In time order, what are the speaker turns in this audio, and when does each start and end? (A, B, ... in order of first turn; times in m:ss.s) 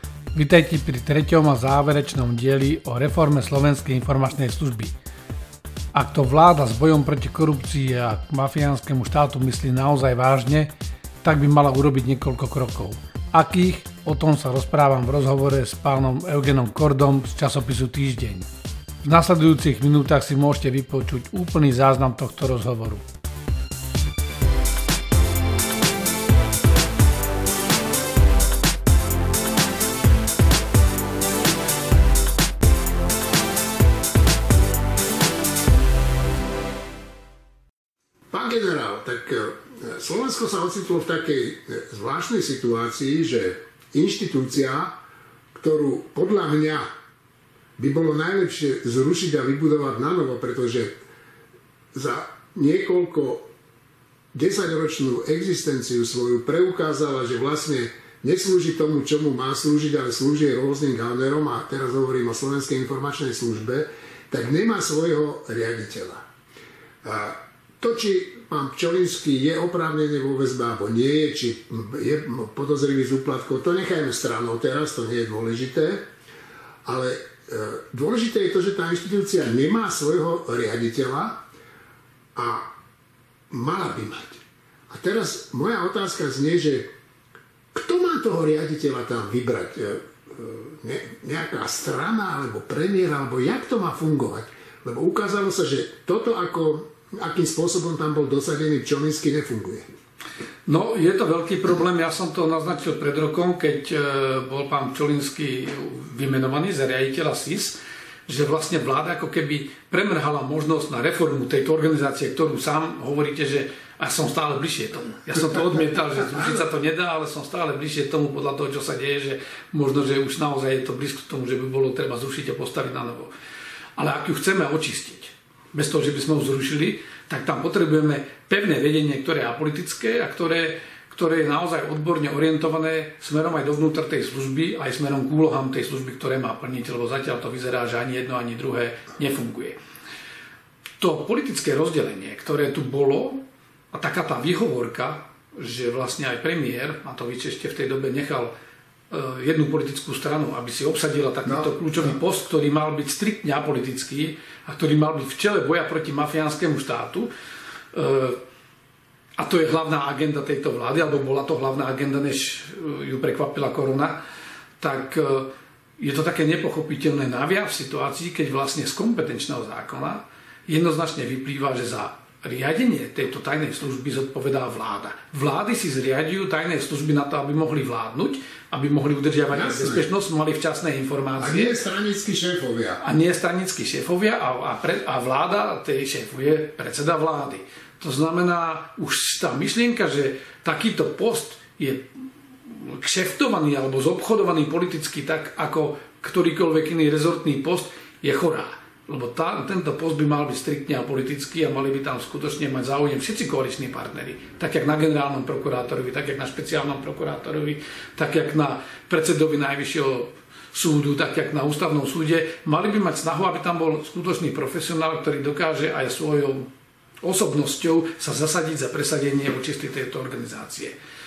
0:00.3-0:04.9 A
0:05.9-0:10.7 A
0:11.2-0:18.5 A
0:19.0-0:23.0 A
0:38.3-0:44.9 B
0:45.5-0:46.8 B
0:47.8-0:50.9 B
0:51.9-0:53.4 B
0:54.3-1:06.2 B
1:07.0-1:16.0 B
1:16.8-1:21.4 B
1:22.4-1:22.7 B
1:23.5-1:26.9 B
1:27.7-1:39.8 B
1:40.6-2:03.3 A
1:55.3-1:56.6 B
2:04.0-2:19.8 A
2:21.0-2:23.4 A
2:23.9-2:28.5 A
2:29.1-2:37.3 A
2:31.4-2:32.2 B
2:37.9-2:38.4 A
2:39.4-2:44.2 A
2:44.8-3:01.8 A
2:59.5-3:00.1 B
3:01.4-3:03.0 B
3:03.0-3:12.0 A
3:12.7-3:36.7 A
3:37.2-3:40.9 A